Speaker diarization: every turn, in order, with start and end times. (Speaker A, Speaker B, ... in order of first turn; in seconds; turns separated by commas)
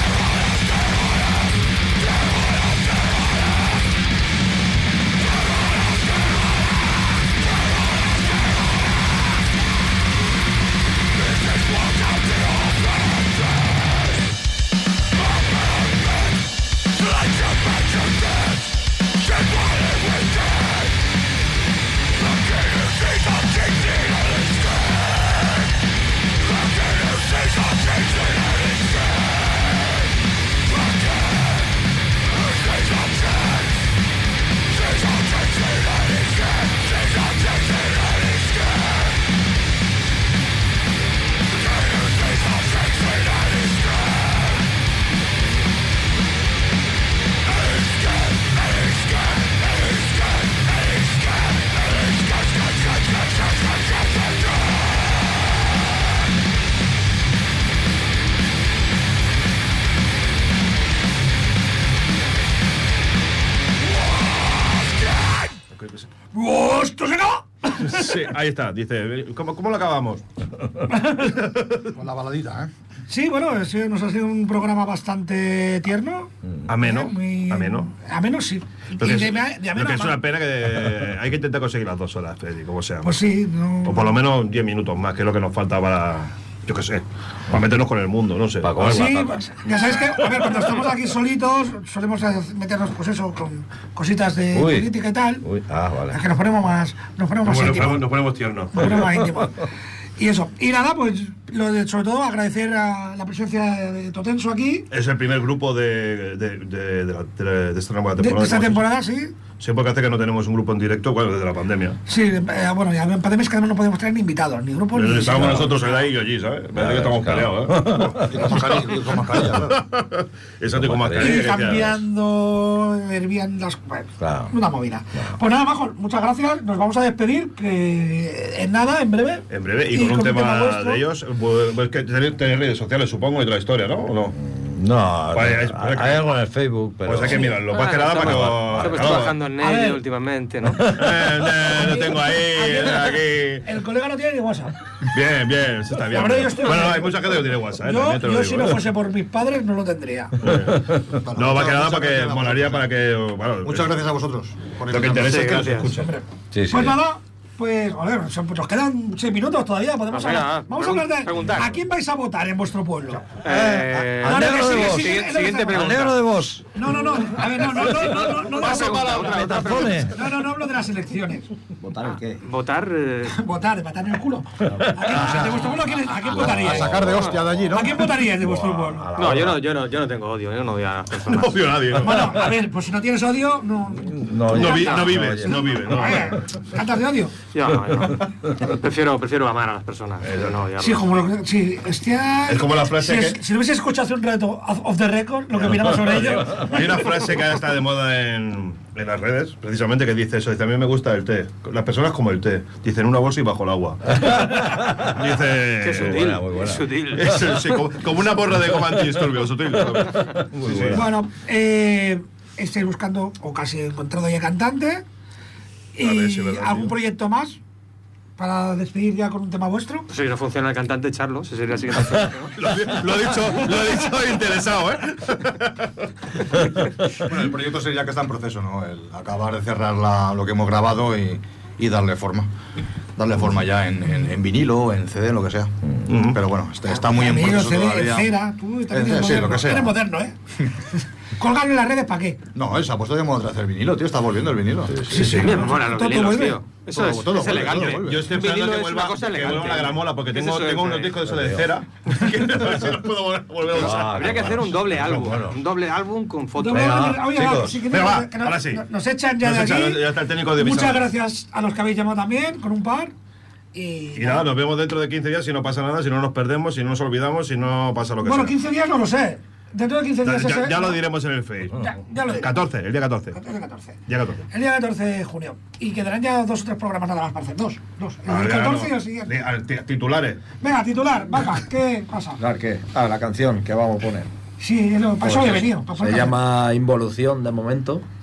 Speaker A: 65.7-66.1, Speaker B: 66.3-68.2, Speaker A: 67.8-71.9, Speaker B: 70.9-71.4, Speaker C: 71.9-72.7, Speaker B: 73.1-80.2, Speaker A: 76.7-77.9, Speaker A: 79.0-83.2, Speaker B: 83.0-84.2, Speaker A: 83.8-89.2, Speaker D: 88.6-89.5, Speaker B: 88.8-95.4, Speaker D: 94.5-94.9, Speaker D: 95.4-96.2, Speaker B: 96.1-98.1, Speaker A: 97.4-99.1, Speaker B: 98.7-99.7, Speaker B: 100.2-104.9, Speaker A: 104.9-108.9, Speaker B: 108.2-109.3, Speaker A: 109.6-112.0, Speaker B: 112.1-115.9, Speaker A: 114.9-122.0, Speaker D: 115.4-115.6, Speaker D: 116.7-118.5, Speaker C: 118.3-119.8, Speaker D: 120.7-121.7, Speaker B: 121.2-131.0, Speaker D: 124.2-124.5, Speaker A: 129.5-134.3, Speaker D: 134.3-139.2, Speaker A: 135.3-136.3, Speaker A: 137.0-139.3, Speaker E: 137.7-140.9, Speaker B: 139.6-140.0, Speaker D: 140.8-141.3, Speaker A: 140.9-143.7, Speaker B: 141.7-144.7, Speaker A: 145.1-148.9, Speaker B: 146.1-150.3, Speaker A: 150.4-153.9, Speaker C: 151.2-152.9, Speaker C: 153.6-155.6, Speaker A: 154.9-156.1, Speaker E: 155.2-155.9, Speaker B: 155.9-163.3, Speaker D: 156.5-157.0, Speaker E: 160.1-161.8, Speaker E: 163.4-166.2, Speaker C: 163.4-163.8, Speaker D: 163.5-166.7, Speaker B: 164.2-166.0, Speaker B: 166.7-169.4, Speaker E: 167.8-170.1, Speaker A: 168.3-169.3, Speaker D: 168.7-170.2, Speaker B: 170.1-171.5, Speaker F: 171.8-172.4, Speaker E: 172.4-173.4, Speaker B: 173.3-177.1, Speaker D: 174.7-175.5, Speaker C: 175.1-175.8, Speaker C: 176.3-178.3, Speaker D: 176.5-177.6, Speaker E: 176.9-177.5, Speaker B: 177.7-179.1, Speaker D: 178.4-179.6, Speaker E: 179.2-181.8, Speaker A: 181.2-182.5, Speaker B: 182.0-187.3, Speaker D: 184.1-186.2, Speaker A: 184.5-186.4, Speaker E: 184.6-185.1, Speaker E: 187.5-191.0, Speaker A: 190.2-190.6, Speaker B: 190.8-197.2, Speaker A: 192.4-193.4, Speaker A: 195.7-206.3, Speaker D: 204.2-205.1, Speaker E: 205.8-207.8, Speaker D: 205.8-206.9, Speaker A: 207.1-211.1, Speaker D: 210.3-211.1, Speaker B: 210.9-215.0, Speaker B: 215.9-217.6, Speaker A: 216.0-216.9, Speaker B: 218.4-220.1, Speaker E: 220.1-222.5, Speaker A: 222.5-226.1, Speaker C: 227.2-232.5, Speaker C: 233.2-238.3, Speaker A: 236.1-236.4, Speaker B: 236.9-240.3, Speaker C: 238.9-240.0, Speaker B: 241.4-242.4, Speaker C: 242.5-245.1, Speaker D: 244.9-245.3, Speaker B: 245.1-246.6, Speaker A: 245.1-245.5, Speaker E: 245.1-251.2, Speaker C: 246.9-248.4, Speaker A: 247.6-255.2, Speaker D: 251.3-251.7, Speaker D: 253.7-255.6, Speaker E: 253.8-257.1, Speaker B: 256.6-263.1, Speaker D: 256.6-257.9, Speaker A: 257.8-258.9, Speaker A: 259.4-261.1, Speaker B: 263.7-264.5, Speaker A: 264.1-268.6, Speaker B: 268.2-271.0, Speaker A: 270.2-273.4, Speaker B: 271.8-272.6, Speaker B: 273.3-274.0, Speaker A: 274.1-274.4, Speaker B: 274.5-279.4, Speaker A: 278.3-280.4, Speaker B: 280.6-282.4, Speaker F: 282.4-284.3, Speaker B: 284.6-286.4, Speaker F: 285.2-288.0